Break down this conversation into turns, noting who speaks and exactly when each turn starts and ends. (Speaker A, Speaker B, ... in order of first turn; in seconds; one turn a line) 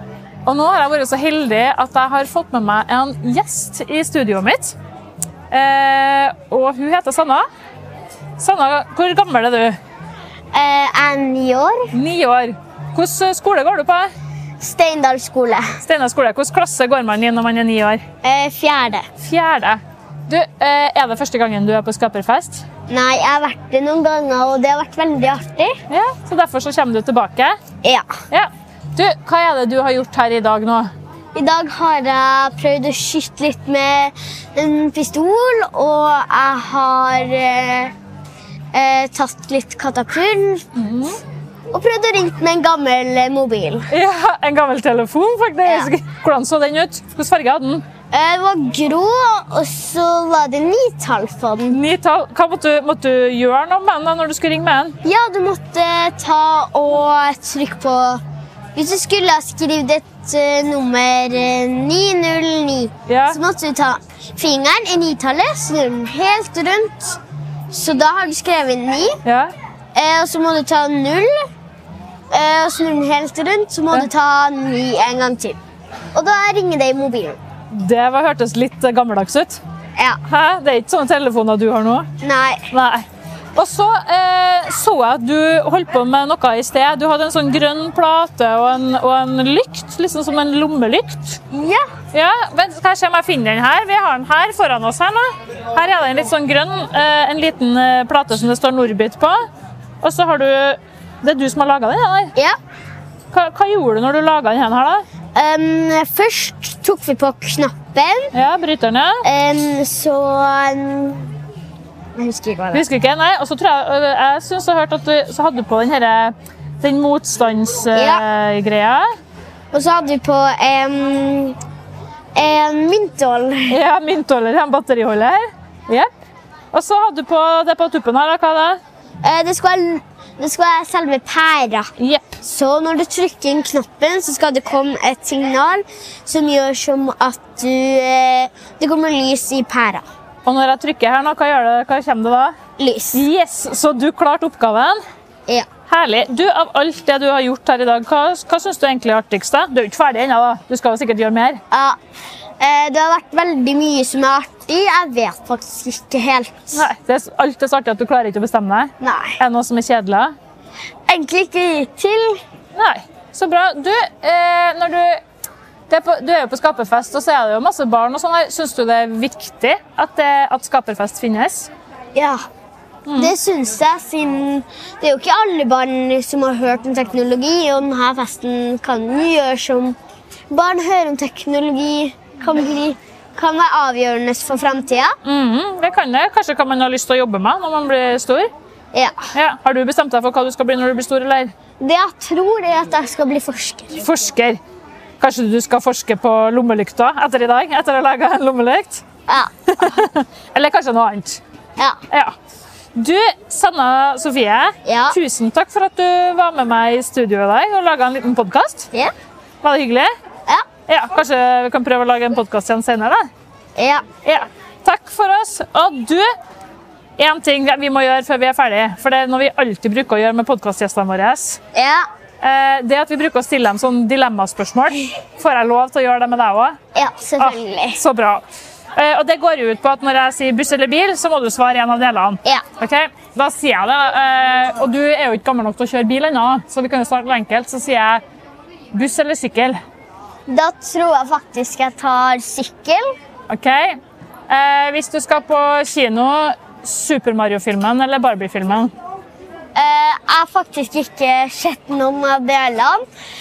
Speaker A: 0.4-4.8
Speaker A: 5.5-7.4
Speaker A: 8.4-9.8
Speaker B: 10.5-11.9
Speaker A: 11.9-14.1
Speaker B: 14.6-15.8
Speaker A: 15.8-18.0
Speaker B: 18.2-19.1
Speaker A: 19.2-22.6
Speaker B: 22.9-25.8
Speaker A: 25.9-27.6
Speaker A: 28.3-30.9
Speaker B: 31.3-37.9
Speaker B: 38.7-40.6
Speaker A: 40.7-41.2
Speaker B: 41.7-43.9
Speaker A: 43.9-47.8
Speaker B: 45.6-45.9
Speaker B: 48.1-51.8
Speaker A: 51.7-55.0
Speaker B: 55.0-58.2
Speaker B: 58.7-67.2
Speaker A: 63.1-63.4
Speaker B: 67.7-69.2
Speaker A: 69.2-69.5
Speaker B: 69.9-71.3
Speaker B: 72.3-75.6
Speaker B: 76.1-77.4
Speaker A: 77.7-79.6
Speaker A: 80.3-82.1
Speaker B: 82.2-82.7
Speaker A: 82.7-91.4
Speaker B: 91.5-91.9
Speaker A: 92.1-99.4
Speaker A: 100.0-102.3
Speaker A: 103.3-105.0
Speaker B: 105.3-108.3
Speaker A: 108.3-109.2
Speaker B: 109.2-111.3
Speaker B: 112.2-112.8
Speaker A: 112.7-119.1
Speaker B: 117.9-118.2
Speaker B: 119.7-121.6
Speaker B: 122.3-123.8
Speaker A: 123.7-126.1
Speaker A: 126.7-128.8
Speaker B: 129.2-131.9
Speaker A: 132.0-132.4
Speaker B: 132.4-140.0
Speaker A: 140.4-142.6
Speaker B: 142.8-143.2
Speaker A: 143.1-145.0
Speaker A: 145.9-151.6
Speaker B: 151.7-152.0
Speaker B: 152.6-156.9
Speaker A: 156.7-160.3
Speaker B: 159.0-159.4
Speaker B: 161.1-162.4
Speaker A: 162.7-165.2
Speaker A: 165.9-171.7
Speaker B: 172.1-172.4
Speaker A: 173.1-173.3
Speaker B: 173.2-180.0
Speaker B: 180.5-185.2
Speaker A: 185.2-188.5
Speaker B: 188.9-189.3
Speaker A: 189.3-191.5
Speaker B: 191.8-194.0
Speaker A: 194.0-194.6
Speaker A: 195.2-199.0
Speaker B: 199.3-199.8
Speaker A: 199.7-201.4
Speaker A: 202.9-208.9
Speaker B: 204.8-205.2
Speaker A: 209.6-210.1
Speaker A: 210.9-213.3
Speaker B: 213.8-214.0
Speaker A: 214.2-216.3
Speaker A: 217.2-221.6
Speaker B: 221.7-222.0
Speaker A: 222.4-226.8
Speaker B: 226.9-228.0
Speaker A: 227.4-228.4
Speaker A: 228.9-238.2
Speaker A: 238.9-239.8
Speaker B: 240.5-243.1
Speaker A: 243.5-248.9
Speaker B: 249.7-253.0